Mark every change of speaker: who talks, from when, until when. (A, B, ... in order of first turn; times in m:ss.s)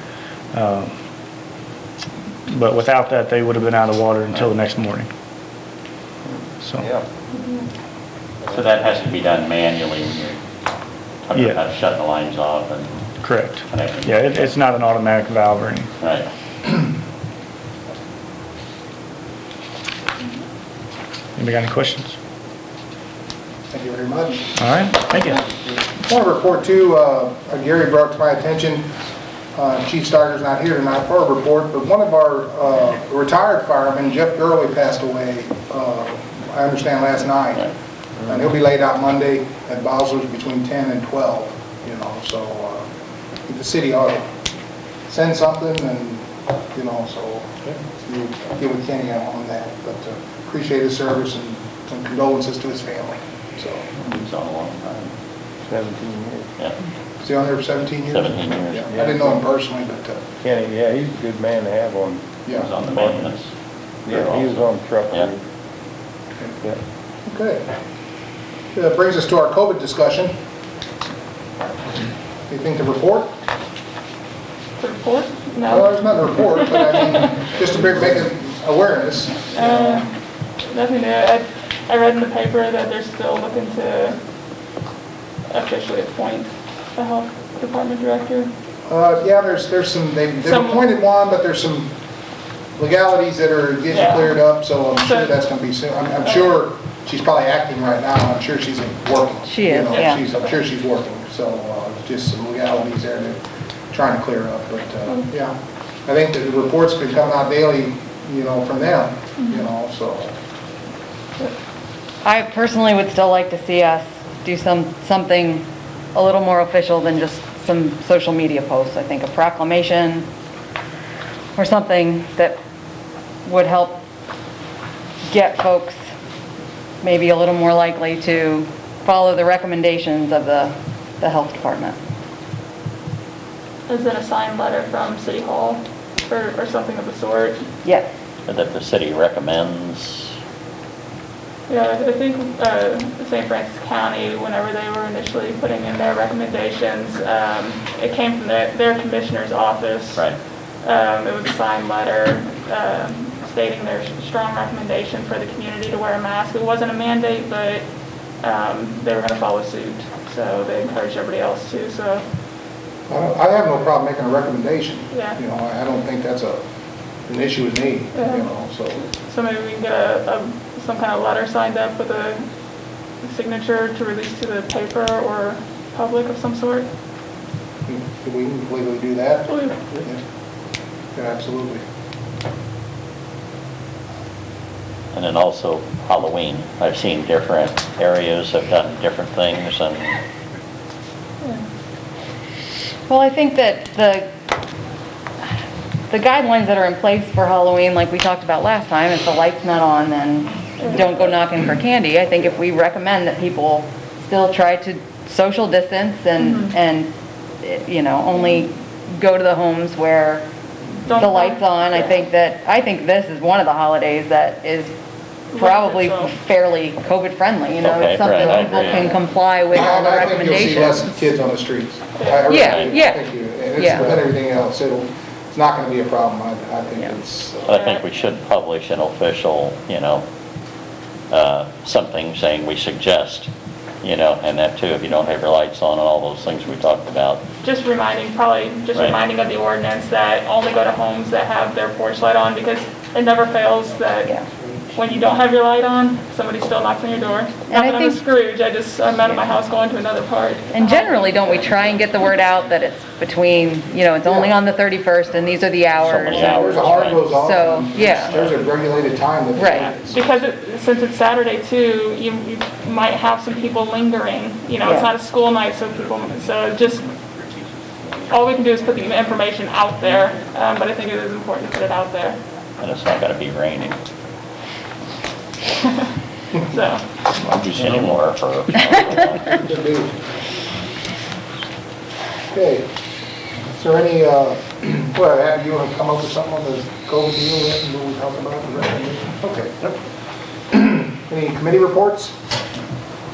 0:00.5-0:00.9 A
0:02.5-0:05.1 A
0:06.3-0:07.0 B
0:06.6-0:06.9 A
0:08.4-0:10.4 C
0:11.3-0:13.1 C
0:13.2-0:15.9 A
0:13.7-0:14.5 C
0:16.0-0:16.3 C
0:21.4-0:22.2 A
0:23.7-0:24.6 D
0:24.6-0:25.4 A
0:26.0-0:28.9 D
0:29.6-0:37.7 D
0:38.2-0:42.9 D
0:43.5-0:44.3 D
0:45.1-0:53.9 D
0:54.0-0:55.1 C
0:55.7-0:56.5 B
0:57.2-1:00.3 D
0:58.1-0:58.9 C
0:58.9-0:59.4 B
1:00.4-1:03.3 B
1:02.4-1:02.7 D
1:02.5-1:03.5 C
1:04.1-1:05.4 B
1:04.1-1:05.3 C
1:07.2-1:07.7 D
1:08.7-1:10.3 D
1:12.5-1:13.3 D
1:14.8-1:17.4 E
1:15.7-1:20.1 D
1:19.5-1:20.1 E
1:20.7-1:24.2 E
1:25.5-1:28.5 E
1:28.9-1:31.9 D
1:30.4-1:30.8 E
1:32.8-1:43.4 D
1:33.9-1:34.3 E
1:35.0-1:35.3 E
1:39.5-1:40.2 F
1:39.9-1:40.5 E
1:43.9-1:50.4 D
1:49.4-1:49.7 E
1:52.2-2:00.3 F
2:01.6-2:02.6 F
2:03.4-2:04.0 F
2:05.3-2:06.0 F
2:07.0-2:12.0 F
2:13.9-2:17.6 E
2:18.5-2:20.4 C
2:21.7-2:37.8 E
2:38.4-2:42.2 E
2:43.1-2:46.6 D
2:45.1-2:45.4 E
2:47.3-2:49.0 D
2:48.2-2:48.5 E
2:49.1-2:52.4 E
2:53.2-2:56.9 E
2:57.8-3:00.2 D
2:59.5-2:59.8 E
3:01.2-3:01.8 D
3:05.1-3:10.2 C
3:13.1-3:14.3 F
3:16.1-3:27.1 F
3:20.8-3:21.1 E
3:26.4-3:26.7 E
3:27.6-3:30.5 F
3:31.1-3:32.2 E
3:31.1-3:34.9 F
3:35.5-3:36.3 E
3:35.6-3:41.2 F
3:37.8-3:39.1 C
3:39.7-3:47.8 D
3:42.2-3:42.6 E
3:42.5-3:44.2 F
3:42.5-3:43.1 C
3:47.7-3:50.2 C
3:47.7-3:48.0 E
3:51.3-3:53.5 C
3:54.0-3:57.4 C
3:57.6-4:04.3 E
3:58.9-3:59.2 C
4:04.9-4:11.6 E
4:07.7-4:08.2 F
4:10.7-4:18.4 F
4:14.2-4:14.5 D
4:16.0-4:17.3 C
4:16.3-4:20.3 D
4:19.6-4:19.9 F
4:19.6-4:27.1 E
4:24.8-4:25.1 F
4:28.3-4:32.4 E
4:32.8-4:34.0 C
4:36.7-4:37.0 E
4:37.3-4:39.6 C
4:39.4-4:40.2 D
4:42.5-4:42.9 D
4:43.7-4:49.9 D
4:50.7-4:52.4 D